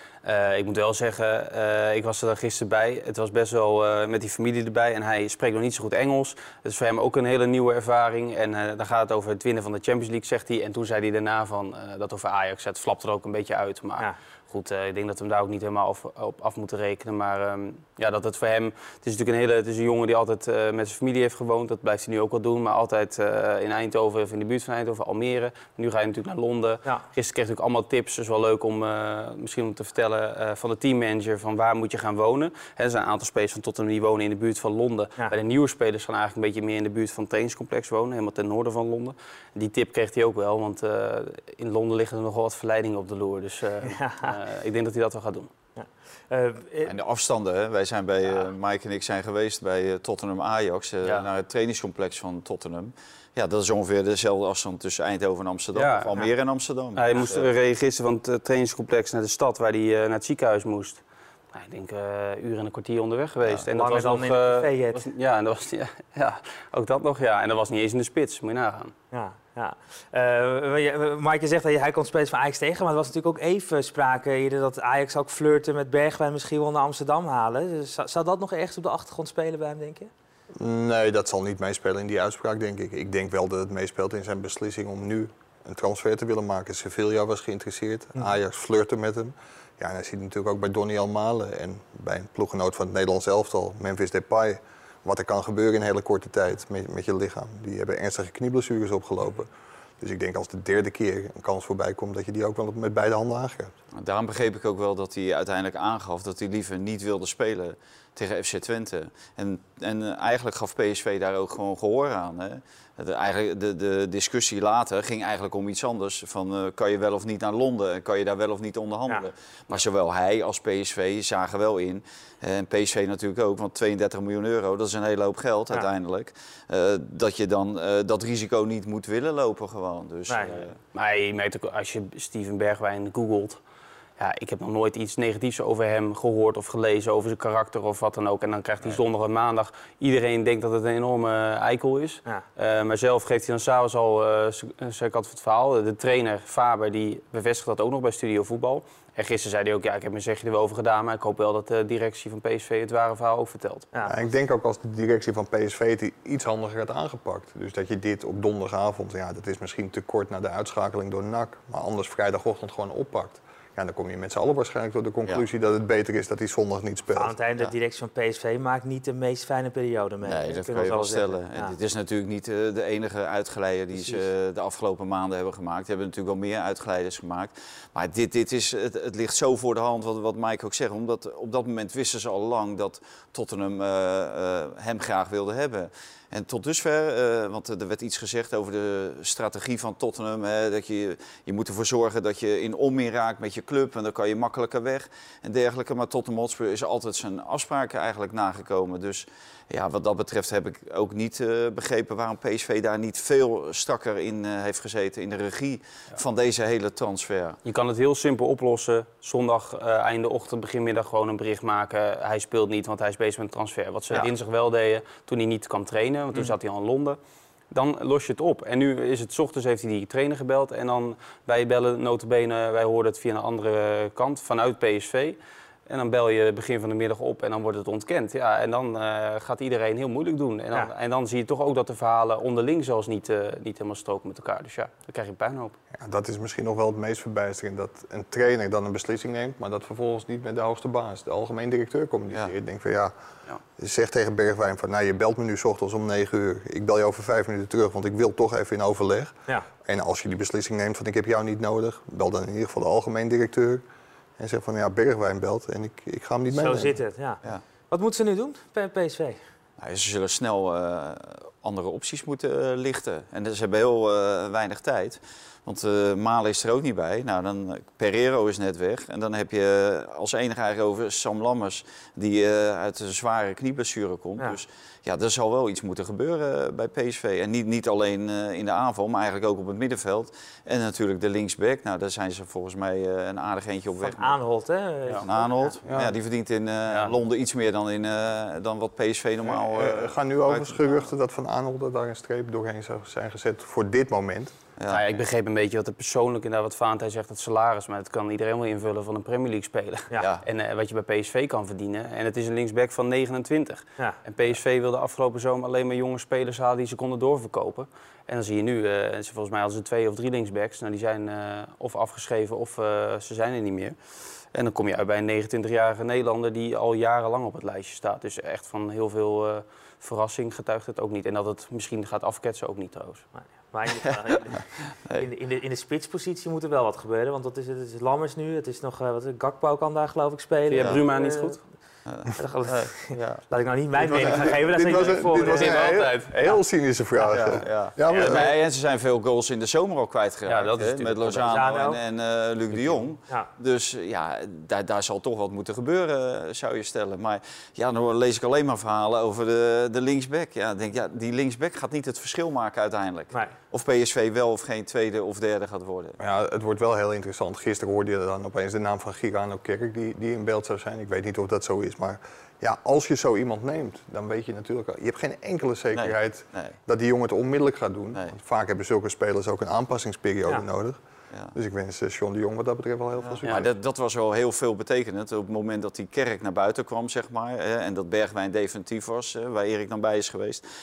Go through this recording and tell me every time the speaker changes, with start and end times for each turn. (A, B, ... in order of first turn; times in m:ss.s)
0:00.2-0:45.5 A
0:43.8-0:44.4 B
0:45.8-0:46.9 B
0:46.8-0:57.5 C
0:55.8-0:56.1 A
0:57.0-1:01.0 A
1:01.5-1:08.9 A
1:03.7-1:05.0 B
1:09.1-1:20.1 B
1:20.6-1:43.8 D
1:43.9-2:10.8 C
2:10.3-2:10.6 B
2:10.9-2:13.6 A
2:14.2-2:33.9 A
2:34.0-2:47.4 D
2:47.1-2:51.8 B
2:50.2-3:27.6 C
2:54.0-2:54.2 B
3:27.6-3:37.2 A
3:37.7-3:55.8 A
3:56.0-4:03.1 D
4:03.8-4:13.8 D
4:14.4-4:17.0 D
4:16.5-4:19.4 B
4:19.8-4:44.4 C
4:44.0-4:45.8 B
4:45.2-4:51.0 C
4:45.9-4:46.1 D
4:46.9-4:47.2 A
4:49.4-4:54.6 D
4:54.8-4:55.0 C
4:54.9-5:14.0 A
5:00.2-5:00.4 C
5:14.5-5:23.2 A
5:23.4-5:31.6 B
5:30.7-5:31.6 A
5:32.0-5:33.4 C
5:32.4-5:36.6 B
5:34.0-5:38.6 D
5:35.4-5:36.3 A
5:37.1-5:37.4 B
5:37.3-5:56.2 C
5:38.1-5:38.4 B
5:40.5-5:41.4 A
5:41.3-5:42.0 B
5:42.7-5:43.1 A
5:56.2-6:11.0 D
6:05.9-6:06.8 C
6:11.5-6:13.7 D
6:13.2-6:20.6 C